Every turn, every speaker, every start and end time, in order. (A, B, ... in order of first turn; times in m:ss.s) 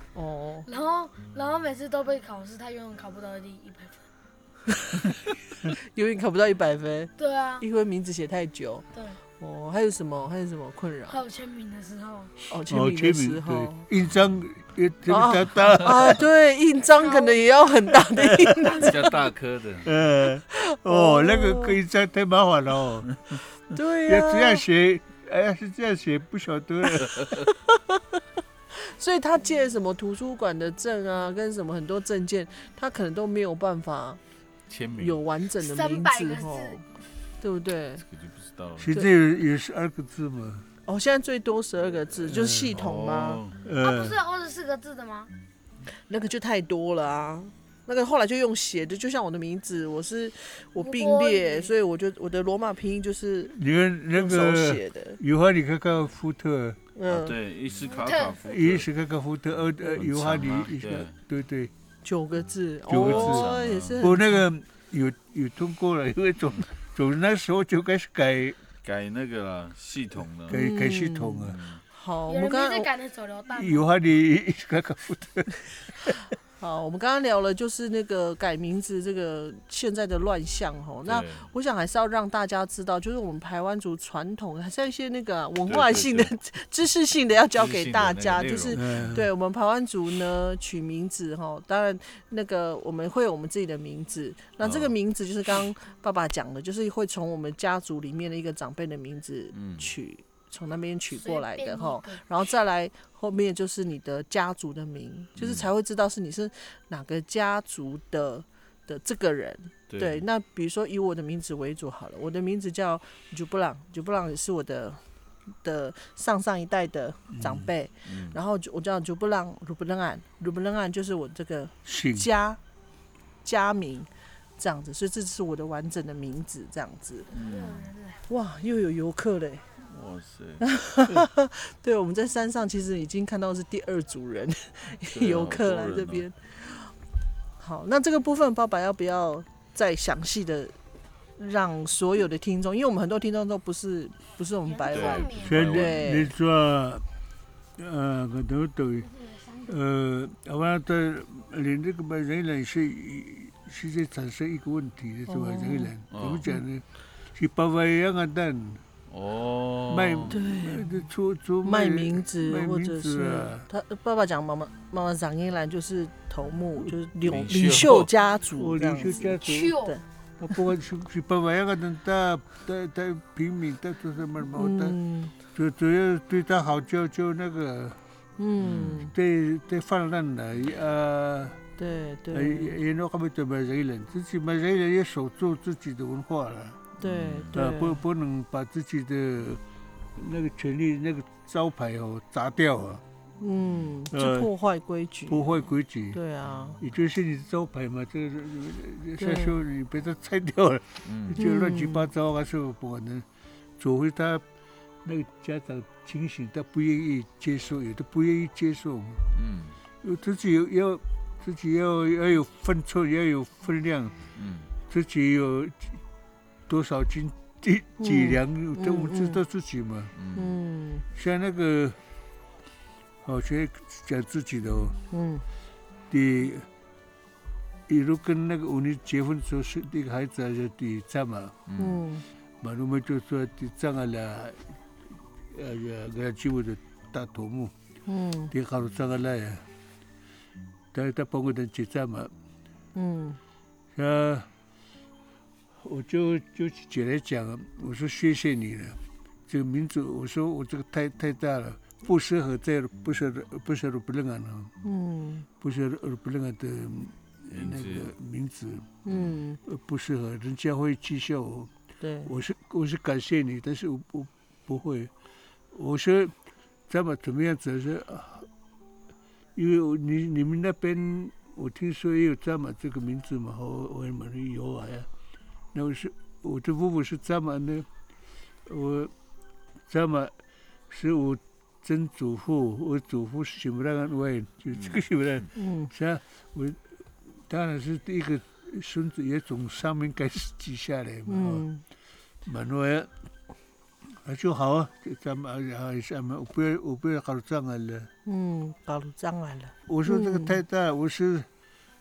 0:00.1-0:00.7 A
0:00.6-0:04.0 B
0:05.7-0:08.8 A
0:07.2-0:07.6 B
0:08.9-0:09.2 B
0:09.4-0:11.2 A
0:11.1-0:12.3 B
0:12.5-0:13.8 A
0:12.7-0:16.2 C
0:15.1-0:19.1 A
0:17.0-0:17.5 B
0:18.2-0:18.6 C
0:18.6-0:19.9 D
0:18.6-0:19.1 B
0:19.8-0:23.1 C
0:20.5-0:21.8 A
0:23.7-0:24.7 A
0:24.0-0:27.3 C
0:27.5-0:28.0 A
0:28.7-0:34.2 A
0:34.7-0:35.2 D
0:35.0-0:36.8 A
0:35.6-0:36.8 B
0:37.4-0:38.0 A
0:38.0-0:38.9 D
0:38.8-0:40.7 C
0:40.8-0:43.4 A
0:42.2-0:42.8 C
0:42.7-0:43.6 D
0:43.6-0:44.2 C
0:43.8-0:45.3 B
0:46.0-0:53.5 A
0:50.8-0:51.7 B
0:53.5-0:56.8 C
0:54.1-0:55.2 A
0:56.9-0:57.3 A
0:57.1-0:58.9 D
0:57.8-0:58.4 B
0:58.4-1:01.7 C
1:00.0-1:01.1 D
1:02.0-1:04.4 A
1:02.9-1:08.6 C
1:02.9-1:04.0 D
1:08.8-1:10.6 D
1:10.4-1:11.6 C
1:10.5-1:12.9 A
1:11.4-1:11.8 D
1:12.3-1:13.9 B
1:13.5-1:16.2 C
1:16.6-1:55.0 A
1:21.0-1:21.5 D
1:25.7-1:26.3 D
1:27.5-1:29.1 D
1:28.7-1:29.3 C
1:34.6-1:34.9 D
1:39.5-1:39.9 D
1:41.1-1:42.2 B
1:45.4-1:45.7 D
1:49.9-1:50.2 D
1:55.6-2:02.6 A
1:57.3-1:57.7 C
1:58.0-1:58.4 D
2:01.8-2:02.3 C
2:03.4-2:07.3 A
2:07.3-2:08.2 B
2:07.3-2:07.9 D
2:08.3-2:09.6 A
2:09.8-2:10.6 D
2:10.6-2:16.9 A
2:15.1-2:16.2 D
2:17.6-2:20.7 A
2:21.4-2:26.3 A
2:24.7-2:25.7 B
2:24.9-2:26.1 D
2:25.4-2:27.0 C
2:27.8-2:29.1 C
2:29.0-2:29.7 B
2:29.6-2:38.8 C
2:35.2-2:35.9 A
2:36.1-2:36.4 D
2:39.1-2:40.4 D
2:39.9-2:43.7 C
2:40.3-2:41.0 A
2:41.6-2:50.0 A
2:47.2-2:48.1 D
2:48.6-2:49.8 C
2:49.3-2:50.0 B
2:50.4-2:55.0 C
2:54.5-2:55.3 A
2:55.5-2:58.0 C
2:58.4-2:59.1 A
2:58.6-2:59.1 D
2:59.1-3:01.6 C
3:01.8-3:02.8 A
3:02.3-3:06.8 C
3:07.0-3:08.0 A
3:07.0-3:07.6 D
3:07.5-3:09.6 C
3:10.1-3:13.0 C
3:13.4-3:15.4 A
3:14.1-3:14.5 C
3:15.3-3:16.2 C
3:16.1-3:16.8 A
3:16.8-3:23.2 C
3:19.2-3:19.6 A
3:21.0-3:21.4 D
3:21.4-3:22.1 A
3:23.8-3:24.4 C
3:25.0-3:29.2 C
3:29.3-3:29.8 D
3:30.0-3:34.2 C
3:34.3-3:34.7 D
3:34.9-3:36.0 C
3:36.7-3:40.1 C
3:38.0-3:39.4 A
3:40.1-3:40.5 D
3:40.3-3:41.0 A
3:41.1-3:42.0 C
3:43.2-3:45.0 C
3:45.1-3:45.4 A
3:46.1-3:46.7 C
3:47.9-3:51.6 C
3:51.7-3:52.0 D
3:51.8-3:52.2 A
3:52.6-3:54.7 C
3:55.5-3:57.7 C
3:58.0-3:58.5 A
3:58.5-3:59.6 C
4:00.9-4:02.3 C
4:02.9-4:03.4 A
4:03.9-4:04.5 C
4:05.8-4:14.7 C
4:14.8-4:15.5 A
4:15.6-4:19.0 C
4:17.5-4:18.1 D
4:19.0-4:19.6 A
4:19.6-4:21.7 C
4:22.0-4:22.3 A
4:22.2-4:25.1 C
4:25.7-4:26.3 C
4:26.9-4:28.5 C
4:29.5-4:35.1 C
4:35.7-4:37.9 C
4:38.6-4:39.1 C
4:39.9-4:40.3 C
4:40.9-4:51.6 C
4:44.7-4:45.4 D
4:45.5-4:45.9 A
4:51.2-4:51.8 A
4:52.4-4:53.1 C
4:54.2-4:58.1 C
4:58.2-5:00.6 A
4:59.9-5:01.5 C